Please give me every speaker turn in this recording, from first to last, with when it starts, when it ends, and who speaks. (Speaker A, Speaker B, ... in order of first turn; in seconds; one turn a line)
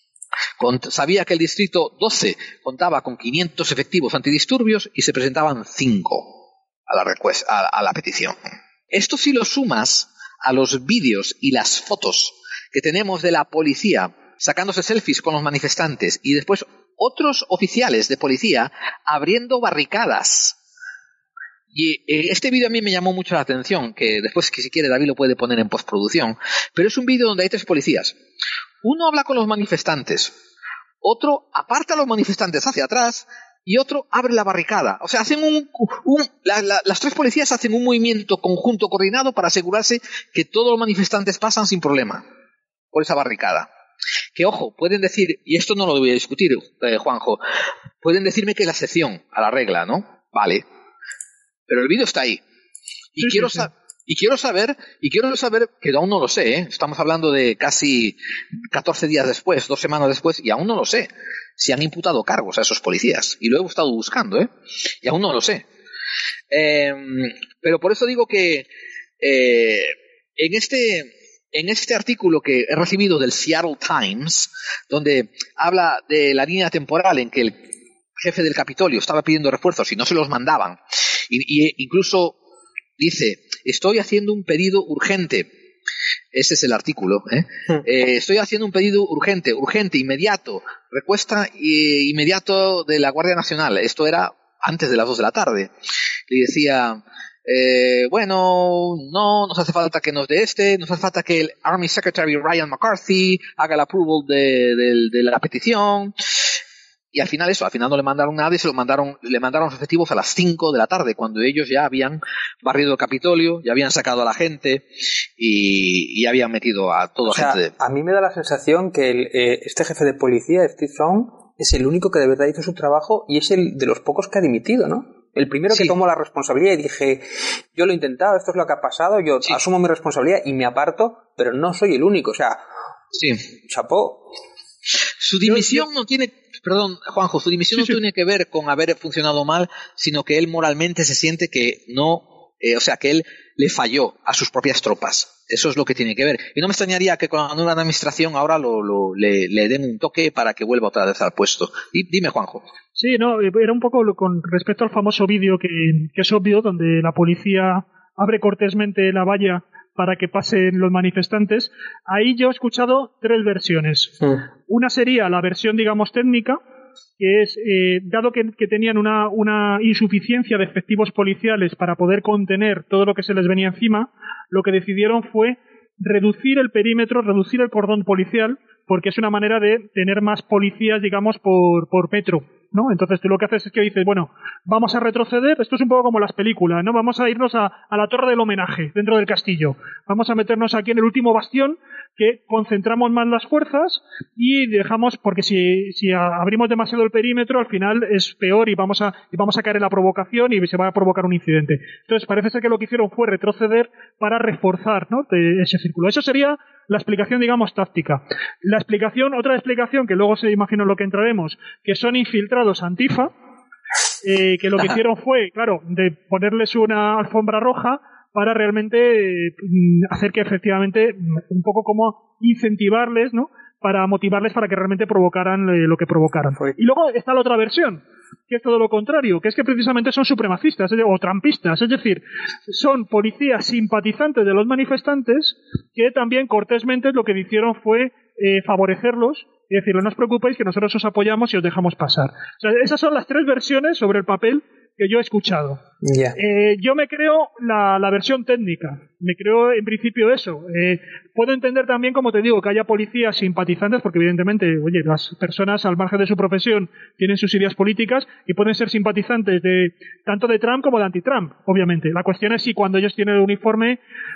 Speaker A: 0.6-6.3
Speaker A: 6.9-8.4
Speaker A: 8.9-20.6
Speaker A: 21.7-28.1
Speaker A: 28.8-30.3
Speaker A: 31.0-42.2
Speaker A: 42.9-43.7
Speaker A: 44.4-47.4
Speaker A: 48.0-50.6
Speaker A: 51.7-52.4
Speaker A: 53.1-58.2
Speaker B: 53.2-53.6
Speaker A: 58.7-64.5
Speaker A: 65.0-65.7
Speaker A: 66.5-68.7
Speaker A: 69.2-77.6
Speaker A: 78.2-82.4
Speaker A: 83.0-85.5
Speaker A: 86.3-95.7
Speaker A: 96.3-106.2
Speaker A: 107.1-117.7
Speaker C: 117.3-127.2
Speaker C: 127.8-132.6
Speaker A: 133.1-133.4
Speaker C: 133.7-134.2
Speaker A: 135.2-152.7
Speaker B: 153.0-166.6
Speaker B: 167.2-213.3
Speaker B: 214.2-245.8
Speaker C: 246.0-246.4
Speaker B: 246.4-264.0